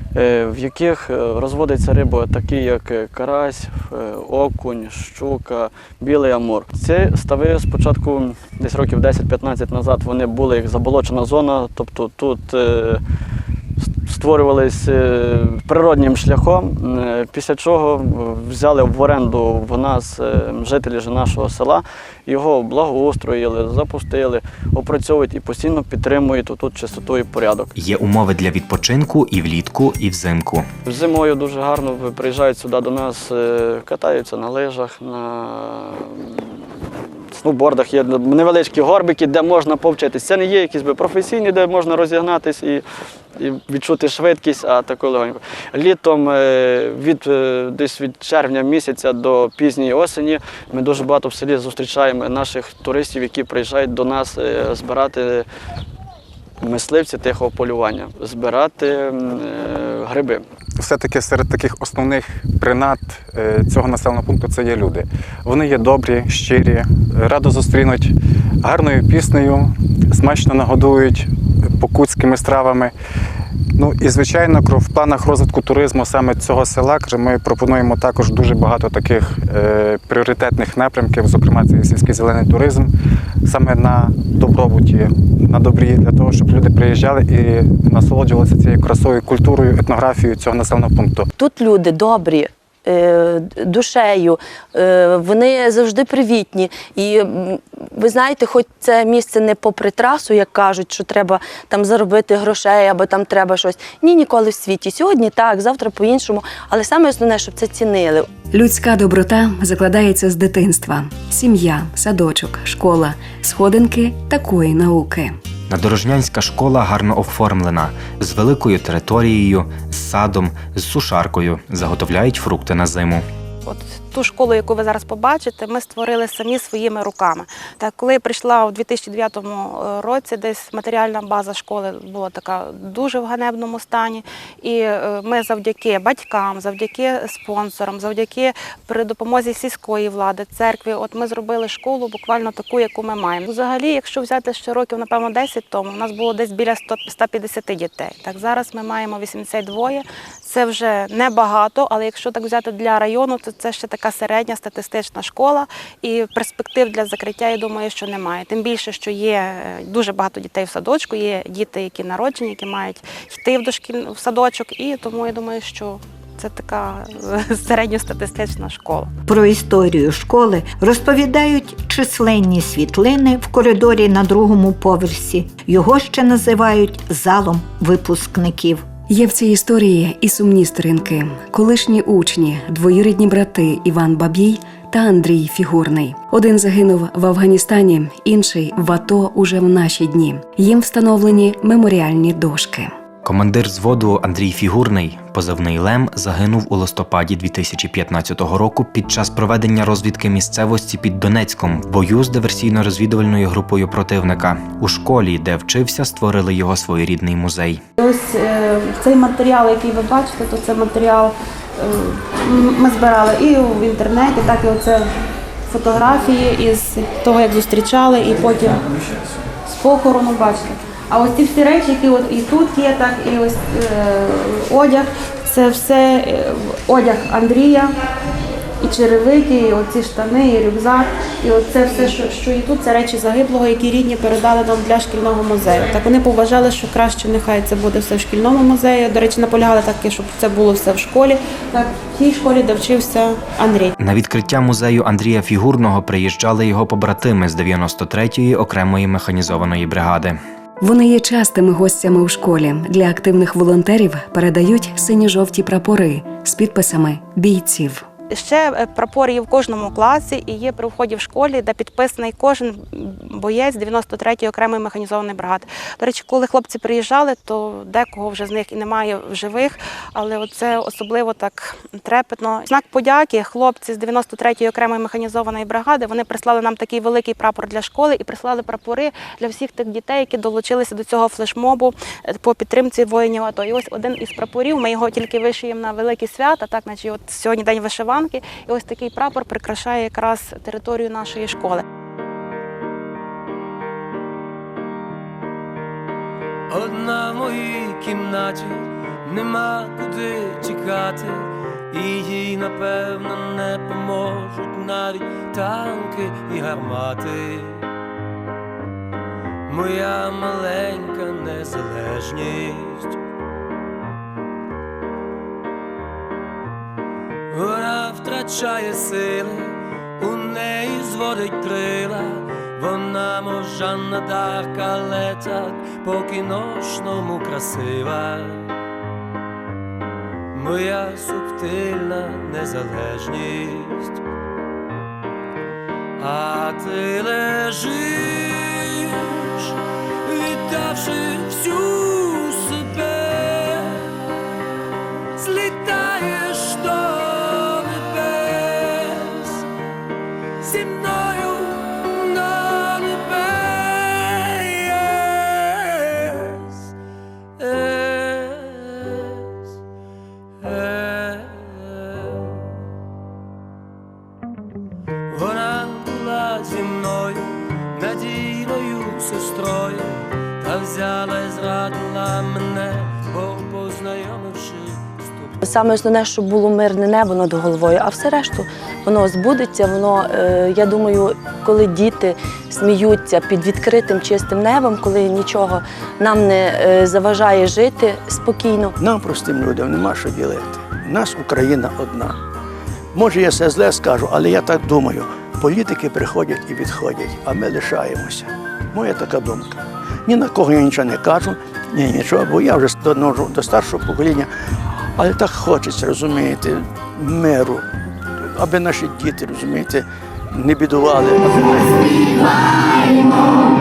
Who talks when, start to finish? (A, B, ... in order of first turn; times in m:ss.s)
0:00.1-0:13.0 A
0:14.0-0:27.7 A
0:27.8-0:30.7 B
0:30.8-0:36.6 A
0:37.4-0:42.8 A
0:43.4-0:55.4 A
0:56.6-1:00.4 A
1:00.8-1:12.9 C
1:13.8-1:22.9 C
1:23.4-1:31.3 C
1:31.4-1:48.3 D
1:48.5-1:55.4 E
1:55.7-2:03.2 B
2:03.6-2:49.1 F
2:49.3-2:58.8 G
2:59.1-3:12.9 E
3:13.2-3:27.8 B
3:28.0-3:35.1 F
3:35.6-3:38.9 F
3:39.6-3:47.9 F
3:48.8-4:03.9 F
4:04.0-4:10.4 B
4:10.8-4:18.0 E
4:18.3-4:51.8 F
4:56.7-5:07.9 H
5:09.7-5:13.2 H
5:17.5-5:28.7 H
5:30.5-5:34.2 H
5:36.2-5:44.2 H
5:45.4-5:49.6 H
5:50.6-5:56.9 H
5:57.6-5:59.4 H
6:00.6-6:02.6 H
6:05.3-6:15.8 H
6:15.6-6:28.9 D
6:29.0-6:32.4 I
6:33.1-6:44.5 I
6:45.2-6:47.8 I
6:48.4-6:52.4 I